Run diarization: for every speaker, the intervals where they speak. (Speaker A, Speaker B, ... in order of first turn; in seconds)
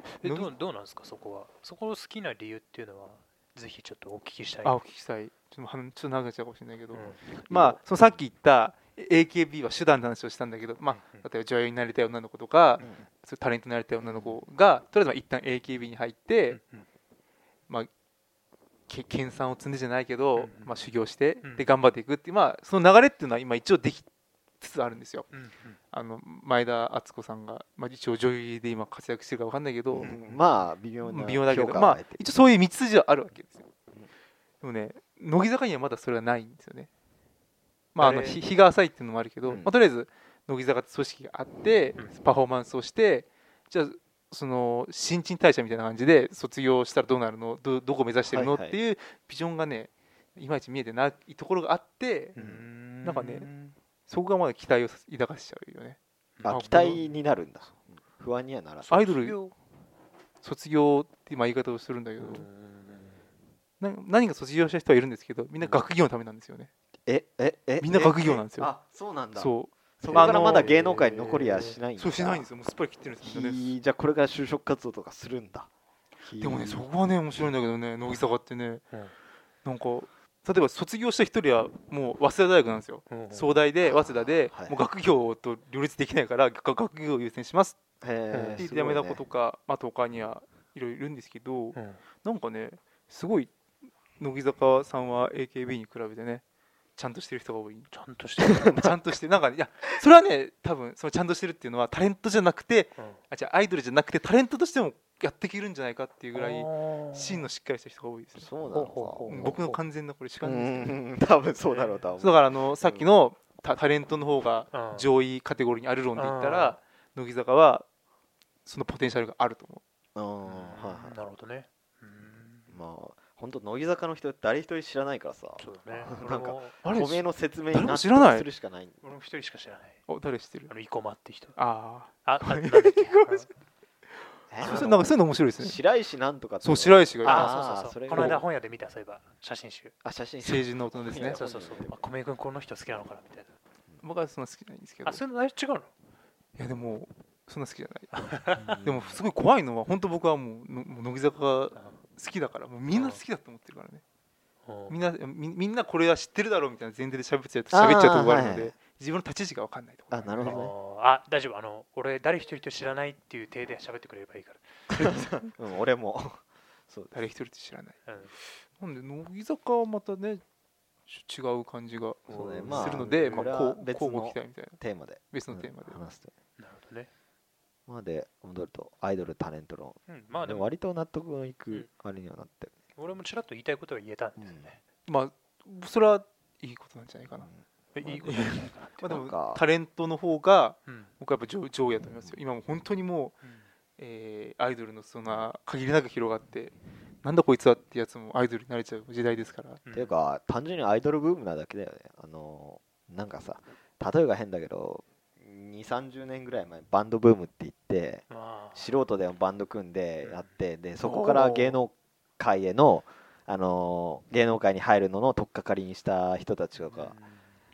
Speaker A: 0.2-4.8, 6.9-7.3, 10.9-11.3, 16.5-16.9, 20.4-20.8, 21.4-21.7, 25.3-25.8, 30.0-30.4, 38.0-38.4, 52.3-53.8, 56.4-57.1, 58.8-59.5, 62.2-63.2, 70.1-71.8, 83.1-83.5, 88.3-88.6, 91.7-92.0, 97.9-98.8, 103.0-103.2, 106.3-107.5, 108.7-109.8, 111.6-112.1, 114.7-115.1, 116.2-116.8, 120.5-122.8, 125.6-126.8, 129.0-130.0, 130.7-131.6, 132.2-133.5, 134.6-135.0, 137.2-139.9, 141.2-143.5, 145.1-145.9, 148.1-148.8, 152.9-153.2, 154.7-155.0, 160.4-164.7, 168.1-168.3, 172.3-173.5, 176.6-177.1, 180.1-180.7, 183.0-184.8, 187.9-189.1, 190.9-191.1, 193.4-193.7, 199.8-200.1, 208.3-208.9, 210.2-210.5, 216.8-217.5
Speaker B: 0.2-0.5, 4.6-16.6, 18.9-24.1, 24.6-25.3, 25.9-30.1, 31.0-33.7, 34.6-36.9, 38.0-52.4, 53.0-53.5, 54.1-57.0, 58.9-59.4, 60.4-62.5, 63.8-66.7, 67.8-68.7, 69.3-70.7, 72.0-73.7, 76.4-78.8, 79.6-87.8, 88.6-93.5, 94.2-96.4, 97.0-97.9, 98.7-108.5, 109.3-111.0, 112.2-117.9, 118.7-119.8, 126.8-128.5, 130.1-130.7, 131.6-133.5, 134.6-135.8, 136.6-137.5, 138.1-138.4, 140.4-141.4, 144.0-145.2, 146.6-148.2, 148.8-154.0, 154.9-160.6, 165.0-165.5, 167.1-170.4, 171.1-174.8, 175.3-176.0, 185.1-187.5, 188.2-193.3, 194.0-199.8, 211.0-211.8
Speaker C: 7.5-7.8, 29.9-32.2, 38.0-38.3, 39.5-39.7, 48.3-48.8, 52.4-52.6, 56.4-58.9, 67.1-72.5, 73.2-75.7, 76.2-76.9, 83.8-84.8, 88.0-89.2, 98.4-98.9, 108.4-109.6, 110.4-113.1, 120.2-121.2, 122.7-129.0, 134.5-138.4, 140.0-142.0, 148.6-149.2, 157.7-158.8, 160.1-160.7, 164.9-167.2, 172.3-176.3, 177.9-182.8, 184.4-184.7, 189.0-189.6, 199.9-217.2